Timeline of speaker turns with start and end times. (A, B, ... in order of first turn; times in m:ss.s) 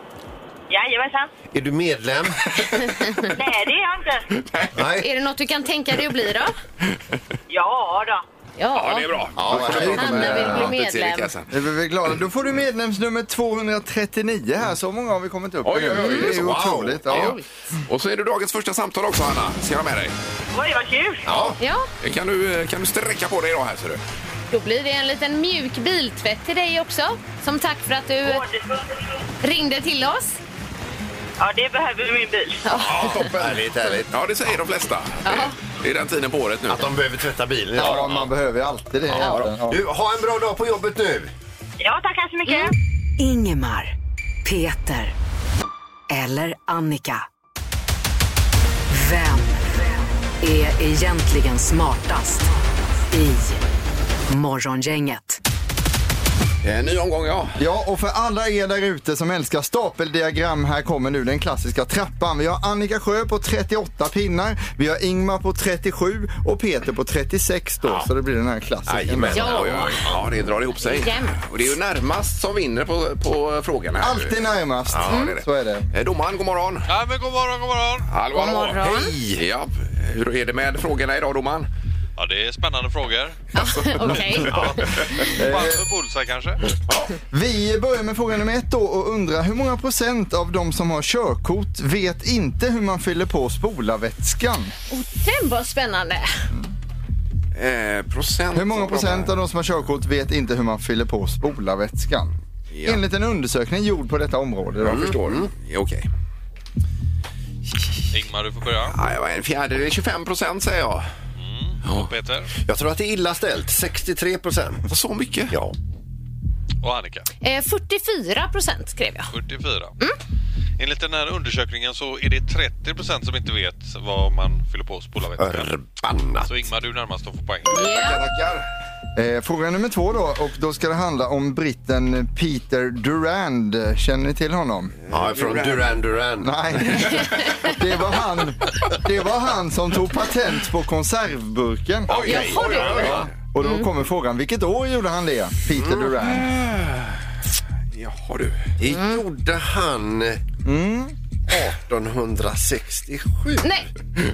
0:00.7-0:01.3 A
0:01.5-0:02.8 B
0:02.7-0:03.3 C
0:03.3-0:04.2 A
0:04.3-0:04.8 D
0:04.7-0:05.1 B
0:05.0-0:06.5 C
0:07.5-0:08.2 A
0:08.6-0:09.1 C
0:08.7-0:11.5 D
0:09.3-0:10.6 B
0:09.5-0:10.7 E
0:09.9-0:11.3 C
0:11.5-0:17.4 E
0:15.6-0:17.4 D
0:16.0-0:16.3 C
0:16.2-0:17.3 B
0:17.1-0:17.4 C
0:17.9-0:20.1 D
0:20.5-0:21.3 A
0:21.2-0:21.6 B
0:21.6-0:21.9 C
0:22.0-0:24.0 D
0:24.5-0:28.4 C
0:28.2-0:28.8 A
0:29.4-0:30.4 C
0:31.4-0:32.6 A
0:32.6-0:33.3 C
0:32.7-0:36.9 D
0:32.9-0:34.2 B
0:35.2-0:35.5 C
0:36.7-0:38.2 B
0:37.8-0:39.8 E
0:37.8-0:38.3 D
0:39.1-0:41.3 B
0:39.2-0:39.4 C
0:41.8-0:42.7 A
0:42.5-0:42.7 C
0:43.2-0:43.9 F
0:44.4-0:45.1 F
0:46.1-0:47.2 F
0:48.9-0:49.6 F
0:50.4-0:52.4 F
0:53.1-0:53.6 F
0:54.3-0:55.4 F
0:56.6-0:57.6 D
0:57.6-1:09.5 E
1:07.8-1:08.1 B
1:08.8-1:10.4 B
1:09.3-1:16.9 D
1:09.3-1:10.0 C
1:10.8-1:11.4 C
1:14.0-1:15.9 E
1:14.9-1:15.2 B
1:15.1-1:15.3 C
1:16.9-1:18.1 G
1:18.1-1:18.8 D
1:18.3-1:19.2 C
1:18.7-1:19.4 B
1:19.3-1:21.7 D
1:22.2-1:26.6 G
1:23.5-1:24.6 C
1:25.4-1:25.9 E
1:27.3-1:34.7 E
1:34.9-1:36.3 C
1:37.5-1:39.3 D
1:38.5-1:42.3 E
1:42.7-1:43.0 D
1:42.8-1:45.1 E
1:44.8-1:46.1 D
1:44.8-1:45.5 B
1:48.1-1:49.0 G
1:48.8-1:51.1 D
1:51.4-1:52.5 G
1:51.8-1:52.1 D
1:52.6-1:54.9 B
1:54.9-1:55.5 D
1:56.8-1:57.2 G
1:57.4-1:59.3 C
1:59.3-2:00.0 G
2:00.8-2:05.7 G
2:05.4-2:06.6 B
2:06.4-2:07.9 G
2:07.7-2:08.2 C
2:07.7-2:08.7 D
2:09.2-2:14.9 E
2:15.0-2:16.0 D
2:15.1-2:16.8 B
2:16.4-2:26.5 E
2:22.1-2:23.3 D
2:22.2-2:23.3 B
2:22.2-2:23.9 C
2:25.7-2:26.1 B
2:26.2-2:27.2 D
2:27.9-2:28.7 D
2:28.8-2:30.4 B
2:28.9-2:29.2 C
2:30.6-2:31.2 E
2:31.5-2:33.8 B